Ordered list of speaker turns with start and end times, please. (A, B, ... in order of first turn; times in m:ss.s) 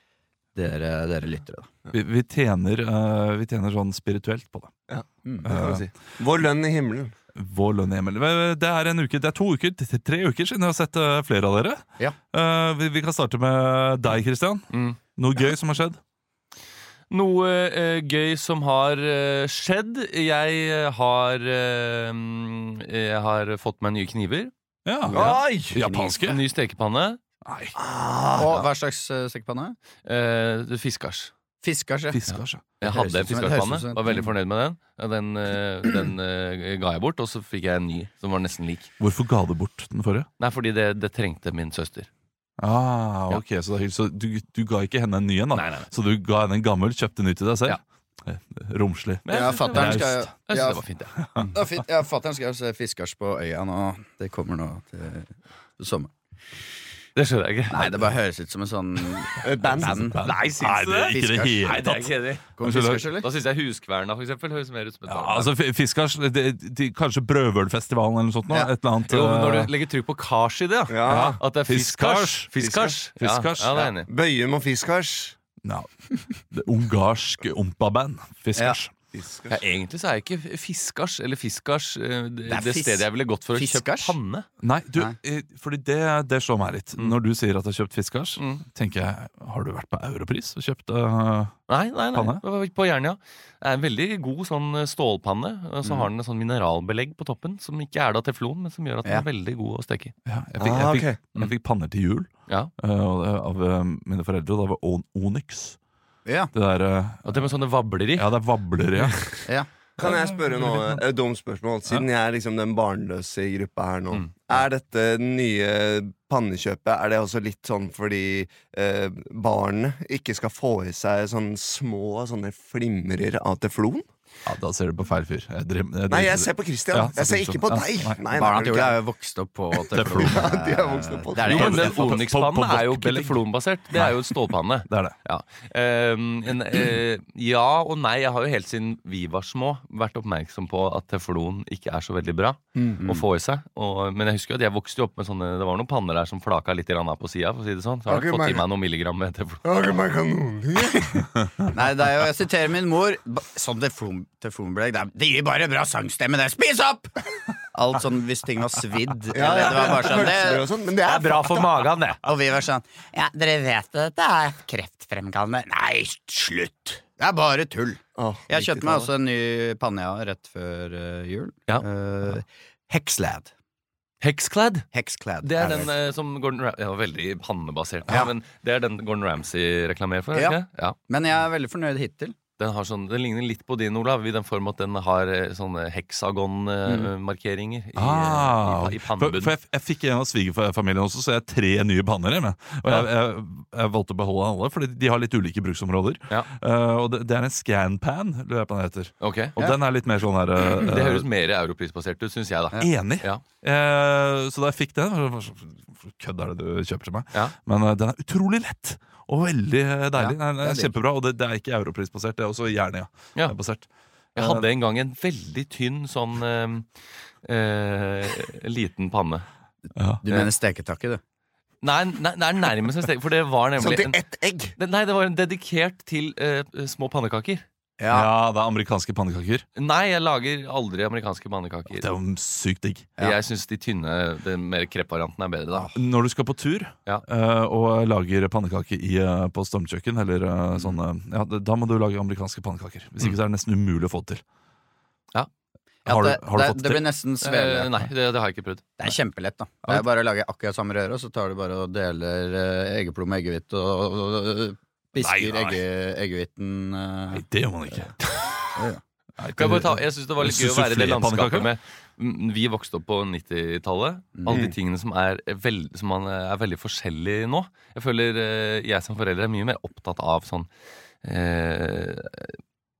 0:00.5-0:01.7 A
0:01.9-0:04.7 B
0:04.9-0:07.1 C
0:05.2-0:05.5 A
0:05.4-0:05.8 B
0:07.3-0:16.0 B
0:14.7-0:15.0 D
0:17.1-0:24.5 D
0:24.8-0:26.4 B
0:25.1-0:25.4 D
0:25.1-0:25.8 C
0:25.7-0:26.2 A
0:26.2-0:27.2 D
0:27.4-0:27.7 B
0:27.8-0:28.6 C
0:28.4-0:29.8 A
0:30.0-0:31.3 D
0:31.6-0:32.2 A
0:32.1-0:32.6 B
0:32.3-0:38.9 D
0:32.8-0:34.3 A
0:39.0-0:40.3 B
0:40.4-0:42.1 D
0:42.6-0:50.3 B
0:45.5-0:45.9 D
0:49.2-0:51.1 D
0:49.3-0:56.1 A
0:57.1-0:57.9 D
0:57.7-1:00.4 A
0:59.4-1:00.3 C
0:59.8-1:03.0 B
1:00.2-1:02.5 D
1:01.1-1:01.7 A
1:02.6-1:03.3 A
1:03.1-1:05.5 D
1:05.1-1:09.7 B
1:09.1-1:14.1 D
1:10.9-1:11.4 C
1:11.1-1:12.6 B
1:12.6-1:13.0 C
1:13.2-1:13.8 B
1:13.7-1:15.4 C
1:15.6-1:18.9 B
1:19.1-1:19.6 C
1:19.5-1:24.5 D
1:22.5-1:24.2 A
1:24.6-1:32.4 B
1:28.4-1:28.6 D
1:31.7-1:40.1 D
1:40.2-1:45.8 B
1:40.6-1:41.2 C
1:40.7-1:41.5 D
1:46.2-1:46.5 A
1:46.5-1:47.5 B
1:47.2-1:48.3 D
1:48.1-1:49.4 B
1:50.0-1:51.0 B
1:50.0-2:04.0 C
2:04.4-2:08.2 B
2:06.1-2:09.0 C
2:08.3-2:11.9 A
2:09.9-2:10.5 B
2:09.9-2:11.9 C
2:11.4-2:15.1 B
2:11.4-2:29.6 D
2:23.0-2:23.2 A
2:28.1-2:28.6 C
2:29.6-2:31.2 C
2:31.0-2:40.7 A
2:39.3-2:41.8 C
2:39.4-2:40.3 D
2:41.0-2:42.2 D
2:42.2-2:53.5 A
2:48.2-2:49.1 C
2:54.2-2:54.8 D
2:54.9-2:55.9 A
2:55.4-3:01.0 D
3:01.1-3:02.3 A
3:02.6-3:09.5 D
3:08.0-3:21.2 B
3:19.2-3:19.5 D
3:20.8-3:23.4 D
3:22.8-3:34.6 B
3:30.2-3:30.9 A
3:34.3-3:39.4 D
3:40.0-3:40.2 B
3:40.2-3:41.2 A
3:41.8-3:44.2 D
3:43.8-3:44.7 C
3:44.8-3:47.6 D
3:48.0-3:48.3 A
3:48.1-3:49.6 B
3:49.8-3:52.0 D
3:51.9-3:53.1 B
3:53.2-3:55.9 D
3:55.9-4:04.4 B
4:06.0-4:07.0 B
4:06.0-4:08.0 A
4:07.4-4:08.9 D
4:09.0-4:18.1 A
4:15.2-4:15.8 B
4:17.3-4:18.2 B
4:18.8-4:19.0 A
4:19.4-4:21.7 B
4:19.6-4:30.7 D
4:24.4-4:24.6 A
4:31.2-4:32.6 D